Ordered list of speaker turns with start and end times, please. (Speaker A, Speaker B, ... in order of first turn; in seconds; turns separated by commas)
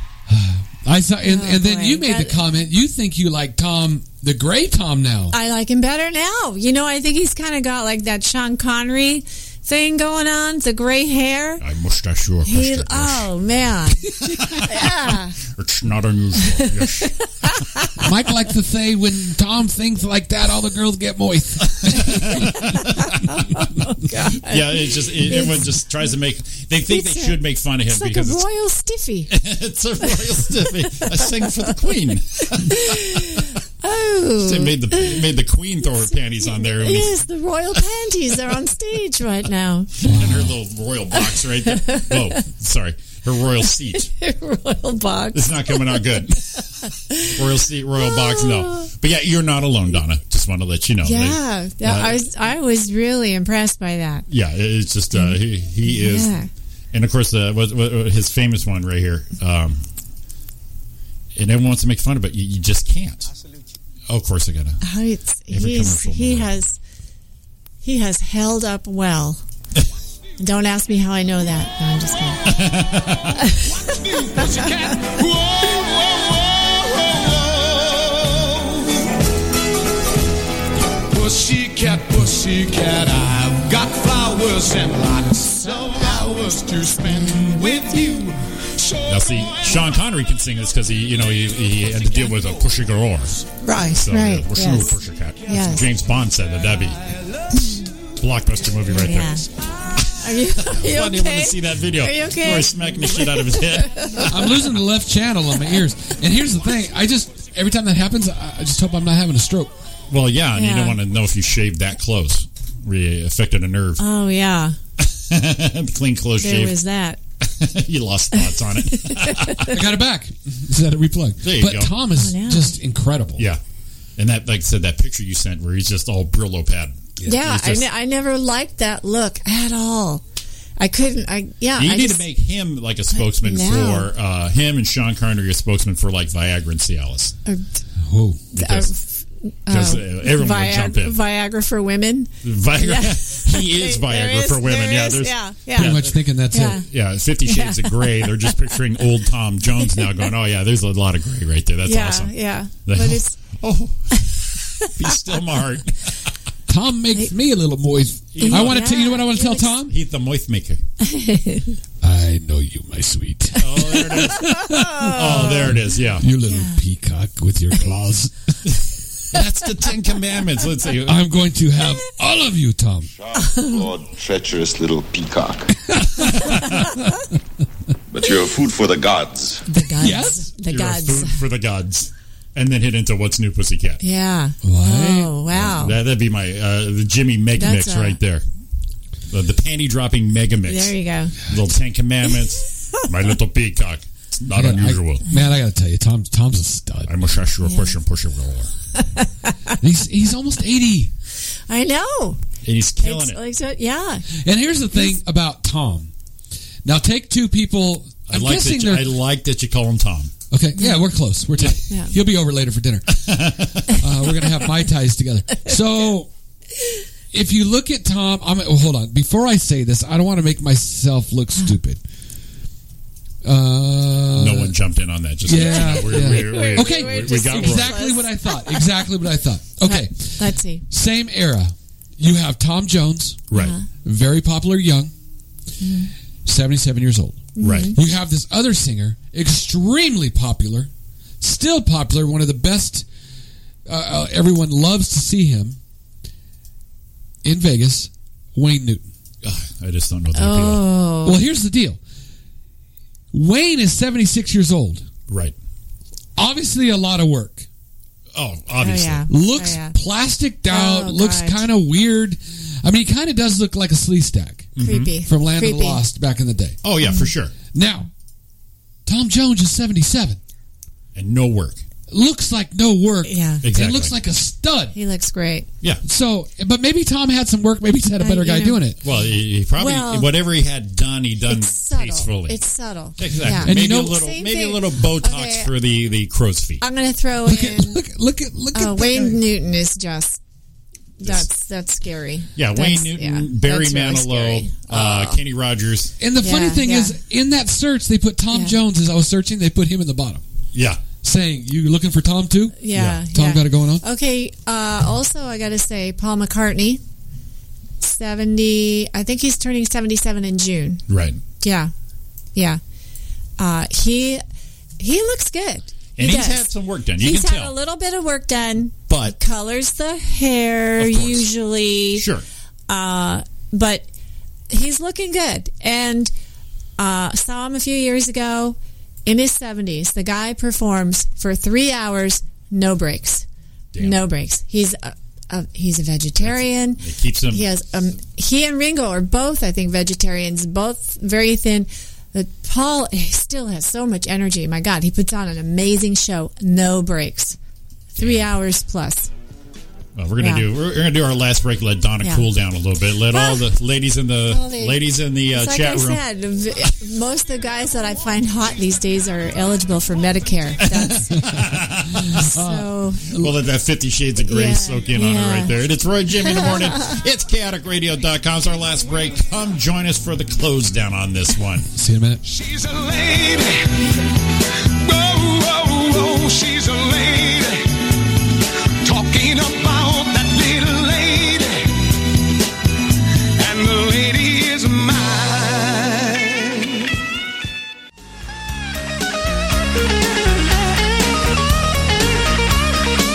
Speaker A: 0.3-5.3, Speaker B: 1.2-2.4, Speaker B: 5.3-11.6, Speaker C: 11.6-13.3, Speaker B: 12.5-15.4, Speaker C: 14.2-14.9, Speaker C: 15.5-17.7, Speaker B: 16.6-18.0, Speaker A: 18.0-22.5, Speaker C: 21.7-23.1, Speaker B: 22.4-25.7, Speaker C: 24.4-28.4, Speaker B: 26.9-29.3, Speaker C: 29.3-33.5, Speaker B: 31.0-31.5, Speaker B: 32.6-35.2, Speaker C: 34.4-37.1, Speaker B: 36.0-39.9, Speaker C: 40.0-44.1, Speaker A: 40.0-40.5, Speaker B: 41.1-42.4, Speaker B: 44.0-47.4, Speaker C: 45.3-46.6, Speaker C: 47.3-52.2, Speaker B: 48.0-48.9, Speaker B: 51.0-54.3, Speaker C: 54.3-56.3, Speaker B: 55.1-56.5, Speaker C: 56.9-59.8, Speaker C: 61.4-63.3, Speaker C: 64.1-64.8, Speaker B: 64.8-66.8, Speaker C: 65.5-66.5, Speaker B: 67.8-69.4, Speaker B: 70.4-72.5, Speaker C: 72.5-73.4, Speaker B: 73.3-73.9, Speaker D: 73.9-79.0, Speaker D: 81.1-89.0, Speaker B: 86.0-86.3, Speaker B: 86.9-88.2, Speaker C: 89.1-93.4, Speaker B: 93.6-95.8, Speaker C: 93.9-97.1, Speaker B: 97.5-97.8, Speaker C: 98.2-104.3, Speaker B: 98.9-99.5, Speaker B: 100.1-104.6, Speaker A: 104.3-109.7, Speaker C: 110.1-114.0, Speaker B: 110.5-111.0, Speaker B: 114.0-114.8, Speaker C: 115.0-116.8, Speaker B: 116.4-117.2, Speaker C: 117.4-119.8, Speaker B: 118.5-119.8, Speaker A: 119.7-123.5, Speaker C: 121.4-121.9, Speaker B: 122.2-122.8, Speaker C: 124.2-127.9, Speaker B: 127.2-130.2, Speaker B: 130.8-132.2, Speaker C: 131.8-137.4, Speaker B: 133.2-134.1, Speaker A: 138.0-138.4, Speaker B: 138.5-146.9, Speaker C: 138.5-138.9, Speaker C: 139.7-141.2, Speaker C: 142.4-146.2, Speaker A: 145.8-146.8, Speaker C: 146.8-154.3, Speaker B: 147.5-148.5, Speaker B: 151.8-153.4, Speaker C: 154.8-156.1, Speaker A: 156.7-159.9, Speaker C: 158.3-159.1, Speaker B: 158.4-159.8, Speaker C: 159.9-160.8, Speaker B: 161.0-161.8, Speaker A: 162.0-168.6, Speaker C: 163.6-164.5, Speaker B: 164.3-165.8, Speaker C: 165.2-166.3, Speaker B: 166.4-166.8, Speaker C: 169.3-171.2, Speaker A: 171.1-173.1, Speaker E: 173.1-175.7, Speaker B: 173.3-173.8, Speaker A: 175.9-176.9, Speaker C: 176.2-176.8, Speaker E: 178.1-179.6, Speaker B: 179.7-181.4, Speaker A: 180.0-180.4, Speaker C: 180.7-184.0, Speaker B: 184.0-185.9, Speaker A: 184.6-185.4, Speaker C: 185.5-188.4, Speaker B: 187.6-188.2, Speaker C: 189.3-195.2, Speaker B: 190.7-191.3, Speaker A: 194.6-197.1, Speaker C: 197.1-198.7, Speaker B: 197.7-197.9, Speaker B: 199.0-199.8, Speaker A: 199.8-201.1, Speaker B: 201.7-202.4, Speaker C: 202.6-203.4, Speaker B: 203.0-204.3, Speaker A: 204.4-206.1, Speaker A: 206.8-209.2, Speaker C: 208.3-210.3, Speaker A: 210.5-213.3, Speaker B: 210.8-211.1, Speaker C: 213.1-214.0, Speaker A: 214.0-216.3, Speaker A: 217.3-222.0, Speaker A: 223.4-224.8, Speaker C: 224.4-228.1, Speaker A: 225.4-233.5, Speaker B: 225.5-229.1, Speaker B: 229.8-230.8, Speaker C: 233.5-233.8, Speaker B: 233.5-233.8, Speaker A: 234.0-235.1, Speaker B: 235.8-236.1, Speaker A: 236.4-240.9, Speaker B: 237.6-238.0, Speaker C: 237.6-237.9, Speaker A: 241.4-243.1, Speaker A: 243.9-245.8, Speaker A: 247.4-249.1, Speaker C: 249.4-250.9, Speaker B: 250.4-251.4, Speaker A: 251.2-252.0, Speaker A: 253.3-255.1, Speaker C: 255.3-255.6, Speaker A: 256.4-257.7, Speaker C: 258.4-259.2, Speaker B: 258.8-260.0, Speaker A: 259.3-266.8, Speaker B: 260.7-261.6, Speaker C: 264.8-265.1, Speaker B: 264.8-266.0, Speaker C: 266.8-267.5, Speaker B: 267.0-267.3, Speaker A: 267.7-268.1, Speaker A: 269.1-270.4, Speaker C: 271.1-271.8, Speaker A: 272.1-275.0, Speaker B: 273.2-273.6, Speaker C: 273.6-274.1, Speaker B: 274.9-275.7, Speaker A: 276.1-279.0, Speaker B: 278.2-278.9, Speaker C: 279.0-282.6, Speaker B: 279.8-280.3, Speaker B: 281.4-285.7, Speaker C: 283.2-286.8, Speaker A: 283.6-284.2, Speaker B: 286.8-288.0, Speaker A: 287.4-289.4, Speaker B: 288.7-290.4, Speaker B: 291.2-295.4, Speaker C: 292.6-296.1, Speaker A: 296.2-300.4, Speaker B: 296.4-297.2, Speaker C: 300.7-301.0, Speaker A: 301.2-304.0, Speaker B: 302.8-307.0, Speaker C: 302.9-303.2, Speaker B: 308.0-311.0, Speaker C: 311.1-311.4, Speaker B: 311.6-311.9, Speaker B: 312.6-312.8, Speaker B: 313.6-314.4, Speaker B: 315.0-322.3, Speaker C: 316.2-317.8, Speaker C: 319.1-319.4, Speaker C: 321.0-321.5, Speaker C: 322.1-322.4, Speaker B: 322.9-324.1, Speaker B: 324.7-326.3, Speaker B: 327.0-333.5, Speaker C: 333.9-334.3, Speaker B: 334.0-347.6, Speaker C: 336.4-337.7, Speaker C: 348.2-348.5, Speaker B: 348.2-349.3, Speaker C: 350.2-356.2, Speaker B: 350.4-350.6, Speaker B: 353.3-353.7, Speaker B: 354.5-355.0, Speaker B: 355.5-361.2, Speaker C: 360.8-362.4, Speaker A: 361.3-363.5, Speaker B: 362.3-363.2, Speaker C: 363.3-371.9, Speaker B: 364.4-365.7, Speaker B: 366.4-367.2, Speaker A: 371.9-372.4, Speaker D: 372.4-374.1, Speaker D: 374.8-378.0, Speaker D: 379.0-382.1, Speaker D: 383.6-387.1